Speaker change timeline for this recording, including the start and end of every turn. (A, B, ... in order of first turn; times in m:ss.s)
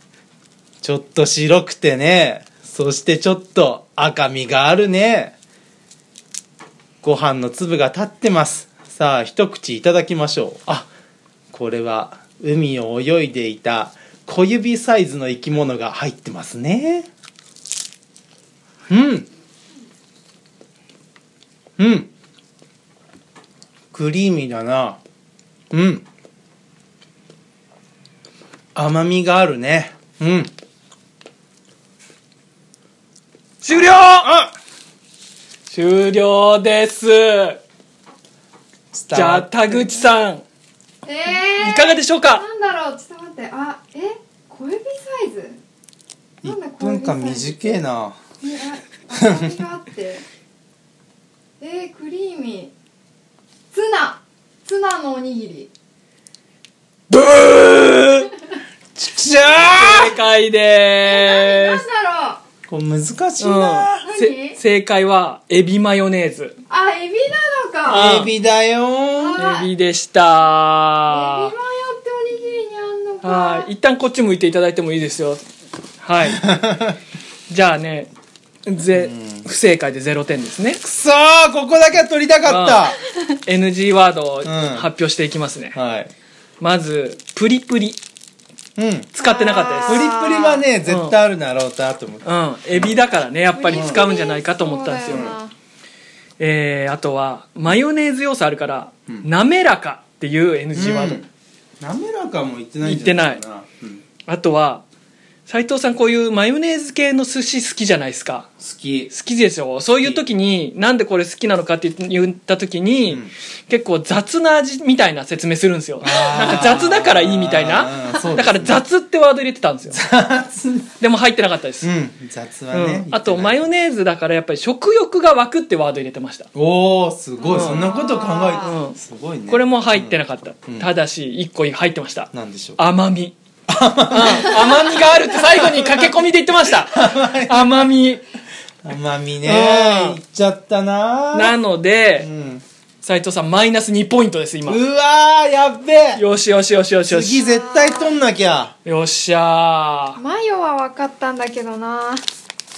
0:00.8-0:05.4 A
0:07.0-0:10.9 A
0:11.5-0:17.1 A
0:18.9-0:19.3 A
0:21.8-0:22.1 A
0:23.9-0:25.0 A
0:25.7-0:26.0 A
0:28.8-0:30.5 A
0:33.6-0:34.3 B
0:34.1-0:34.5 A
0:35.7-0:37.6 B
0:38.9-0:40.0 A
0:39.1-0:40.4 B
0:41.0-0:45.6 C
0:41.5-0:42.4 B
0:46.4-0:47.8 C
0:46.4-0:48.2 A
0:48.4-0:50.2 C
0:49.2-0:49.6 A
0:51.6-0:52.7 C
0:53.7-0:55.7 C
0:57.1-0:58.3 B
0:59.0-1:00.1 A
0:59.6-1:01.8 B
1:01.0-1:02.4 C
1:02.7-1:04.0 A
1:03.4-1:06.6 B
1:04.0-1:04.6 C
1:06.7-1:08.1 C
1:07.9-1:09.4 A
1:07.9-1:08.3 B
1:09.2-1:09.7 C
1:09.4-1:11.5 B
1:11.1-1:13.7 C
1:13.2-1:15.4 B
1:16.0-1:16.4 B
1:16.3-1:17.0 A
1:17.5-1:18.1 B
1:18.7-1:20.8 B
1:18.9-1:19.5 A
1:20.8-1:23.0 A
1:22.5-1:22.9 B
1:23.5-1:25.8 B
1:24.4-1:24.9 A
1:25.7-1:26.1 A
1:26.6-1:28.0 B
1:28.8-1:29.1 A
1:29.2-1:30.1 B
1:29.2-1:30.6 C
1:29.9-1:33.0 A
1:30.9-1:31.2 B
1:32.2-1:35.3 B
1:33.6-1:35.5 C
1:33.7-1:34.0 A
1:35.1-1:35.3 A
1:36.4-1:41.2 B
1:40.7-1:41.3 A
1:41.8-1:44.0 A
1:42.8-1:43.4 B
1:44.3-1:44.8 B
1:45.5-1:48.5 B
1:48.6-1:49.1 A
1:49.1-2:00.0 B
1:56.0-1:58.8 A
1:59.9-2:00.9 A
2:01.0-2:01.9 B
2:01.8-2:03.7 A
2:02.7-2:06.5 B
2:06.6-2:10.2 A
2:07.4-2:08.8 C
2:07.5-2:07.8 B
2:08.6-2:13.4 B
2:12.3-2:12.8 A
2:13.7-2:14.8 A
2:14.1-2:18.2 B
2:15.4-2:16.1 A
2:16.8-2:17.8 A
2:18.8-2:21.6 A
2:19.4-2:20.2 B
2:21.3-2:22.3 B
2:22.2-2:22.6 A
2:23.0-2:24.8 B
2:24.7-2:26.2 A
2:26.2-2:27.4 B
2:27.1-2:28.7 A
2:27.4-2:28.2 C
2:28.8-2:30.2 B
2:30.2-2:32.2 C